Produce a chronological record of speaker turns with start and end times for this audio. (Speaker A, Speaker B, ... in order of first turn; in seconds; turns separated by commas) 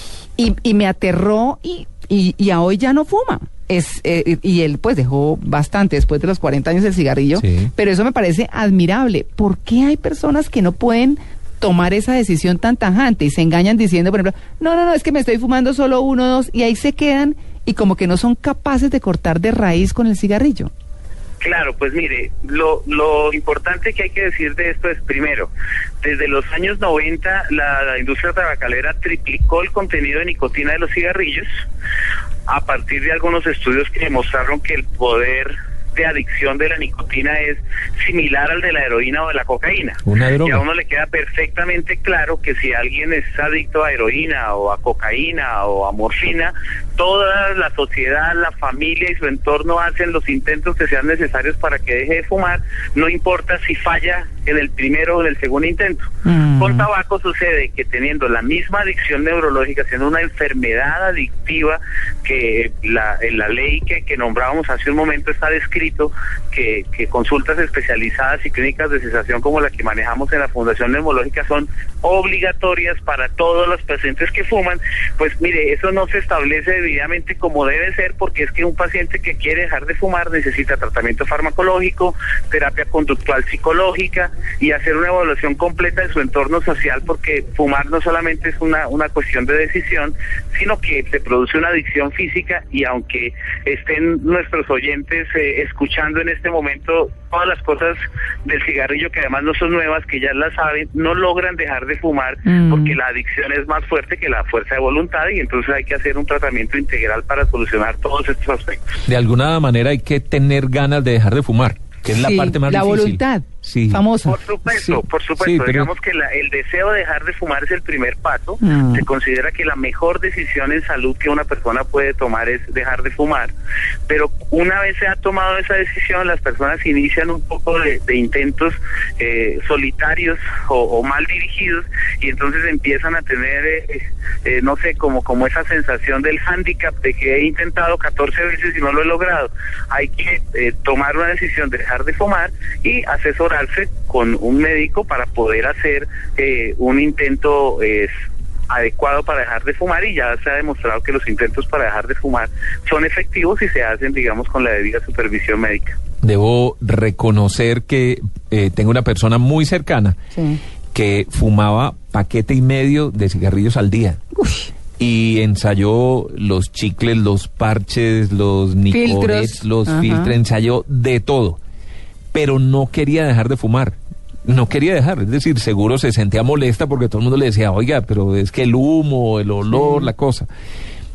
Speaker A: 0.4-20.7, Speaker B: 7.4-7.7, Speaker C: 21.4-25.5, Speaker C: 26.0-31.4, Speaker C: 32.5-108.9, Speaker B: 40.1-40.6, Speaker A: 56.2-56.9, Speaker A: 102.5-103.0, Speaker B: 109.1-114.0, Speaker A: 112.1-114.4, Speaker C: 114.2-123.5, Speaker B: 114.7-115.9, Speaker A: 118.6-119.0, Speaker C: 124.1-156.0, Speaker B: 156.2-160.2, Speaker A: 160.3-160.6, Speaker B: 160.9-164.2, Speaker A: 164.3-164.7, Speaker B: 165.0-171.6, Speaker A: 168.9-170.4, Speaker B: 172.3-180.5, Speaker A: 179.7-180.1